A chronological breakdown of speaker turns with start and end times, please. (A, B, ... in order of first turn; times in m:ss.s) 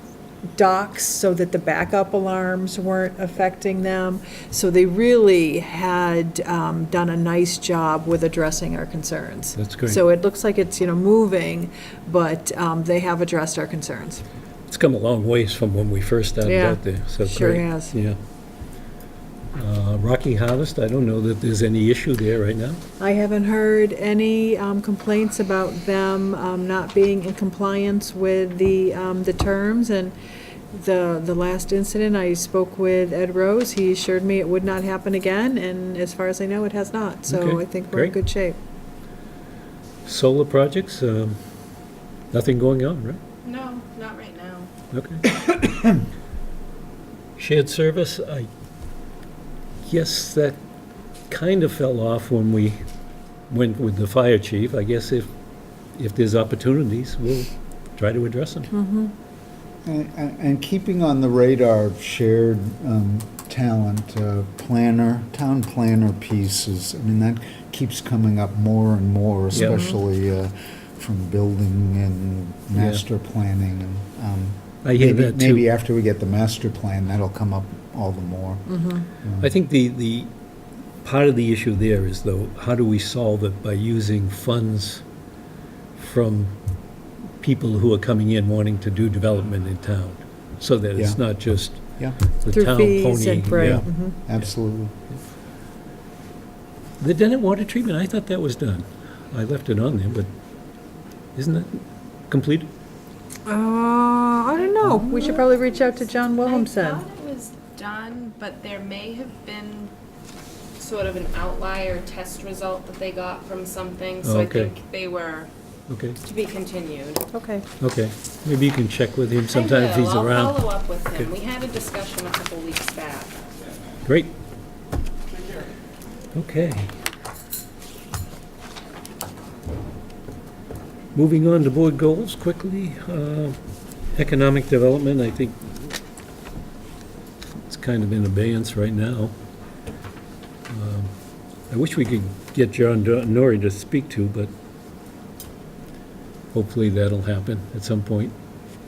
0:00.6-0:14.2 A
0:09.6-0:10.0 B
0:14.7-0:18.2 B
0:16.4-0:18.0 A
0:19.5-0:22.8 B
0:23.0-0:30.1 A
0:30.7-0:38.6 A
0:37.3-0:38.2 B
0:40.0-0:41.4 B
0:42.3-0:43.2 B
0:43.4-0:44.7 C
0:44.9-0:45.2 B
0:47.4-0:48.5 B
0:49.8-0:50.6 B
0:51.3-0:52.8 B
0:53.5-0:55.3 B
0:56.0-0:58.7 B
0:58.7-0:59.1 A
0:59.8-1:19.5 D
1:09.5-1:09.8 B
1:09.5-1:10.0 A
1:12.8-1:13.0 B
1:14.8-1:15.7 B
1:18.7-1:19.1 A
1:19.4-1:20.3 B
1:21.0-1:25.0 B
1:26.0-1:26.6 B
1:27.4-1:34.6 B
1:31.0-1:32.2 D
1:32.5-1:34.2 A
1:33.6-1:34.9 D
1:37.0-1:40.3 B
1:41.4-1:42.7 B
1:43.5-1:47.0 A
1:44.6-1:49.9 C
1:44.8-1:45.1 D
1:50.8-1:55.5 C
1:54.2-1:54.7 B
1:55.9-1:56.2 B
1:56.2-1:57.2 C
1:57.3-1:57.7 A
1:57.8-2:01.3 B
1:59.5-2:03.4 C
2:04.0-2:04.3 B
2:06.3-2:06.9 B
2:11.1-2:13.6 B
2:14.1-2:16.0 B
2:17.5-2:19.4 B
2:20.7-2:21.1 B
2:21.7-2:24.5 B
2:26.5-2:28.3 B